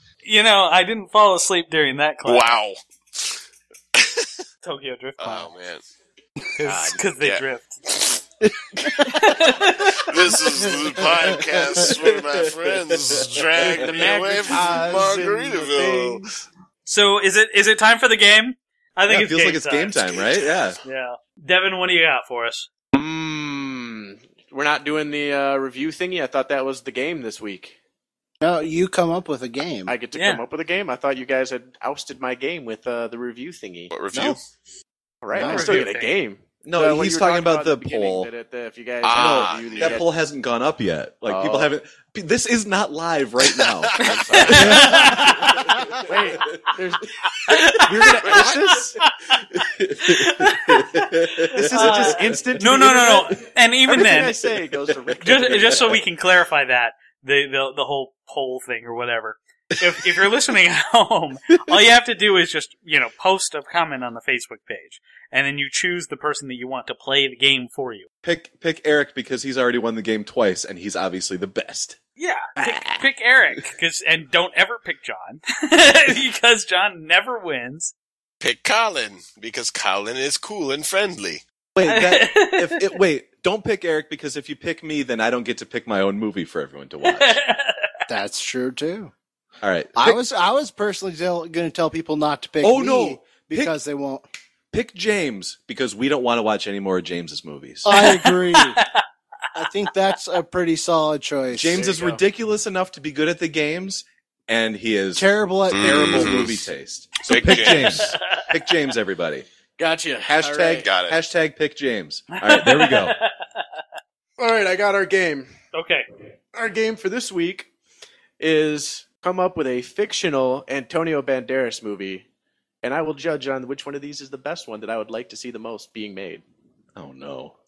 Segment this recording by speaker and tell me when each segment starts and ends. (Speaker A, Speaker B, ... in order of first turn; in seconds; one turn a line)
Speaker A: 0.2-2.5
Speaker B: 2.2-3.4
Speaker B: 3.9-4.3
Speaker A: 4.6-5.5
Speaker B: 5.2-5.8
Speaker A: 6.6-7.8
Speaker B: 6.6-8.2
Speaker C: 8.8-9.1
Speaker A: 9.1-10.0
Speaker B: 9.9-16.2
Speaker C: 10.3-11.9
Speaker D: 11.8-13.9
Speaker E: 13.7-16.1
Speaker C: 16.0-16.3
Speaker A: 16.9-20.1
Speaker D: 19.1-20.8
Speaker A: 20.8-22.7
Speaker E: 22.9-27.8
Speaker C: 28.4-29.9
Speaker E: 29.9-33.9
Speaker A: 30.1-30.4
Speaker B: 33.9-34.4
Speaker D: 34.1-34.4
Speaker E: 35.2-40.1
Speaker C: 35.3-35.9
Speaker A: 35.4-36.1
Speaker D: 36.6-38.3
Speaker B: 39.0-40.0
Speaker D: 39.1-46.6
Speaker E: 41.3-41.7
Speaker B: 43.9-44.2
Speaker E: 44.2-45.1
Speaker A: 44.5-45.6
Speaker E: 46.0-47.1
Speaker A: 47.5-48.4
Speaker E: 47.7-49.0
Speaker B: 48.2-48.7
Speaker A: 49.0-54.4
Speaker D: 49.5-52.5
Speaker E: 51.5-56.0
Speaker D: 54.3-55.2
Speaker A: 55.2-68.1
Speaker D: 68.2-72.0
Speaker A: 72.2-77.9
Speaker D: 72.7-72.9
Speaker B: 78.4-81.4
Speaker D: 81.7-87.4
Speaker A: 81.8-82.8
Speaker A: 87.1-88.0
Speaker C: 88.1-89.1
Speaker D: 89.6-90.2
Speaker C: 90.0-94.2
Speaker D: 92.6-93.7
Speaker D: 94.7-98.0
Speaker C: 97.8-98.8
Speaker A: 97.9-99.0
Speaker C: 99.5-101.8
Speaker D: 101.5-109.5
Speaker E: 101.7-102.2
Speaker C: 105.1-106.3
Speaker B: 105.7-106.7
Speaker B: 107.2-108.1
Speaker A: 107.5-108.5
Speaker E: 109.8-110.9
Speaker D: 110.2-113.2
Speaker B: 110.8-111.2
Speaker A: 112.3-113.7
Speaker E: 114.4-115.5
Speaker A: 115.7-116.0
Speaker E: 116.5-117.7
Speaker E: 118.4-122.2
Speaker E: 122.8-126.4
Speaker D: 127.0-127.5